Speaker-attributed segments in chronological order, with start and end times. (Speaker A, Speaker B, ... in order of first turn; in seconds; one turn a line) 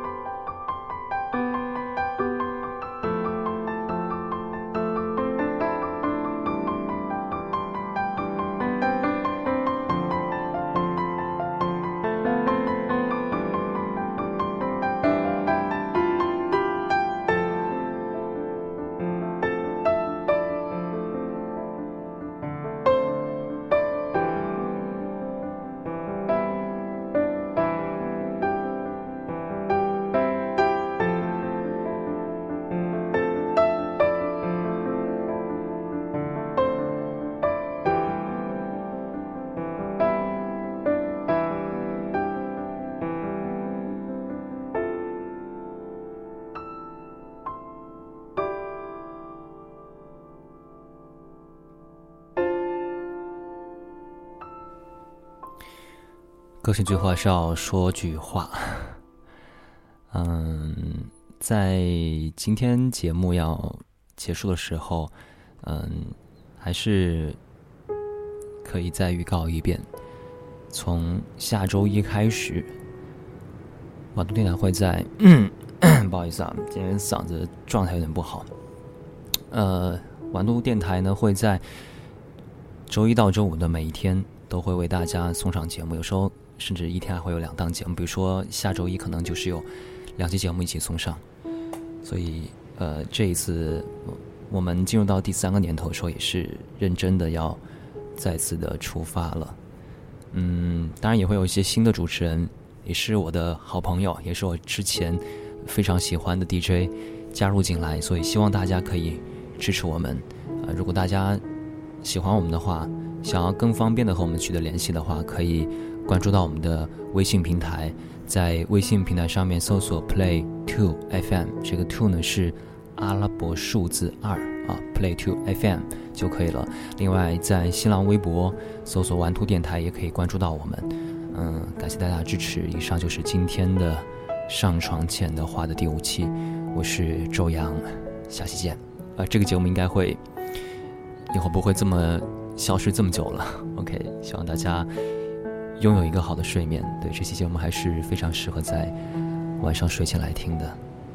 Speaker A: 56.6-59.0
Speaker A: 60.1-67.4
Speaker A: 68.6-69.9
Speaker A: 70.7-72.7
Speaker A: 74.1-78.5
Speaker A: 79.5-81.6
Speaker A: 82.9-91.2
Speaker A: 92.0-97.6
Speaker A: 98.2-99.6
Speaker A: 100.3-111.4
Speaker A: 112.0-140.2
Speaker A: 141.3-144.9
Speaker A: 145.8-148.9
Speaker A: 149.6-150.8